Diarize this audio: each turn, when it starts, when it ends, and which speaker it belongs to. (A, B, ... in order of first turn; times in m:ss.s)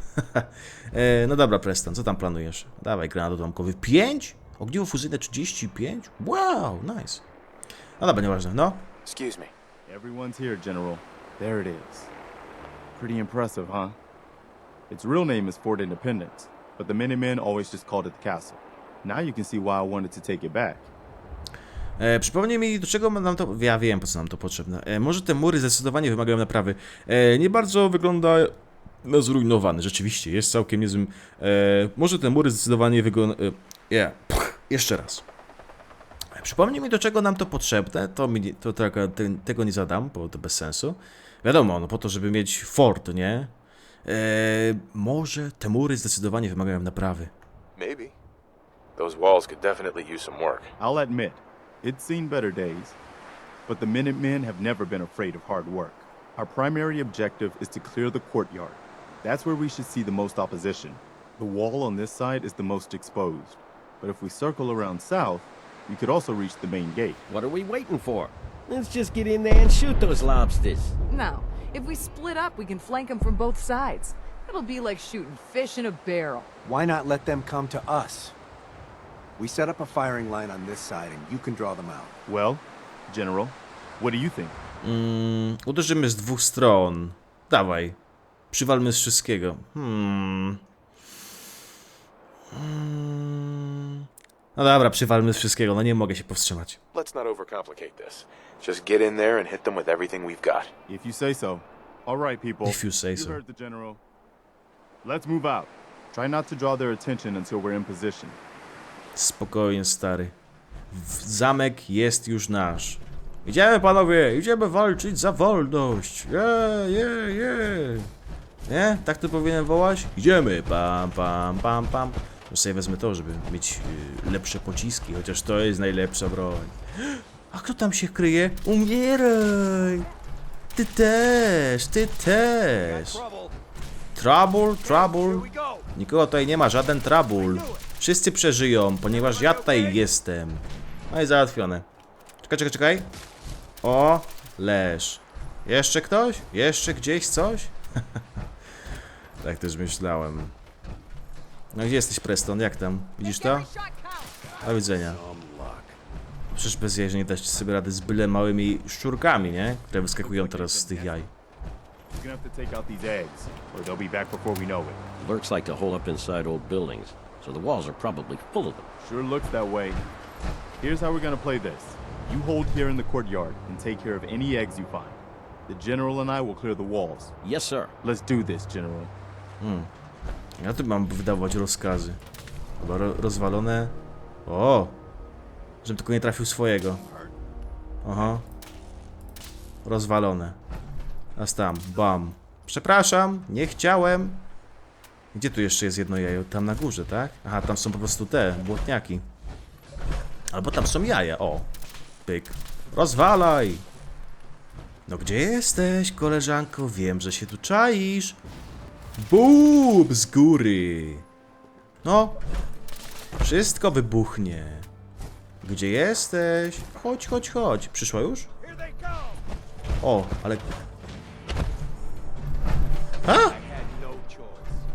0:00.2-0:07.2 A
0:08.0-0:08.9 A
0:09.0-0:09.5 B
0:09.9-0:12.1 C
0:13.0-0:14.0 C
0:14.9-0:20.9 C
0:22.0-0:35.2 A
0:36.3-0:43.5 A
0:44.0-0:47.3 A
0:47.8-0:48.2 B
0:49.0-0:50.7 B
0:50.8-0:53.0 C
0:53.7-1:07.2 C
1:07.3-1:11.0 D
1:11.1-1:16.5 E
1:16.6-1:18.4 F
1:19.4-1:22.1 F
1:22.3-1:24.6 C
1:24.8-1:28.0 A
1:28.5-1:30.6 A
1:32.5-1:34.0 A
1:34.6-1:36.8 A
1:36.9-1:40.7 B
1:40.9-1:44.0 C
1:42.6-1:43.4 A
1:45.0-1:48.4 C
1:49.2-1:50.3 A
1:50.9-1:58.1 A
1:58.7-2:10.1 A
2:10.8-2:13.2 A
2:12.8-2:13.5 F
2:14.2-2:21.9 A
2:14.8-2:15.8 F
2:22.4-2:23.1 A
2:23.8-2:27.7 A
2:29.4-2:30.5 A
2:31.7-2:33.7 A
2:33.2-2:34.5 E
2:34.6-2:35.2 A
2:34.6-2:36.0 D
2:36.5-2:41.3 A
2:40.2-2:41.2 C
2:42.1-2:45.0 C
2:45.2-2:48.9 D
2:49.0-2:50.0 C
2:50.8-2:57.3 C
2:57.4-2:57.9 D
2:58.0-2:59.1 C
2:59.6-2:59.9 A
3:00.6-3:02.2 A
3:02.8-3:05.0 A
3:05.8-3:07.0 A
3:08.0-3:08.4 A
3:09.8-3:10.6 A
3:11.4-3:14.4 A
3:15.3-3:19.3 A
3:20.5-3:21.7 A
3:22.3-3:23.8 A
3:25.1-3:28.4 A
3:29.2-3:31.2 A
3:32.0-3:32.4 A
3:33.4-3:34.9 A
3:35.6-3:38.5 A
3:40.0-3:40.7 A
3:43.2-3:43.6 A
3:43.7-3:44.6 C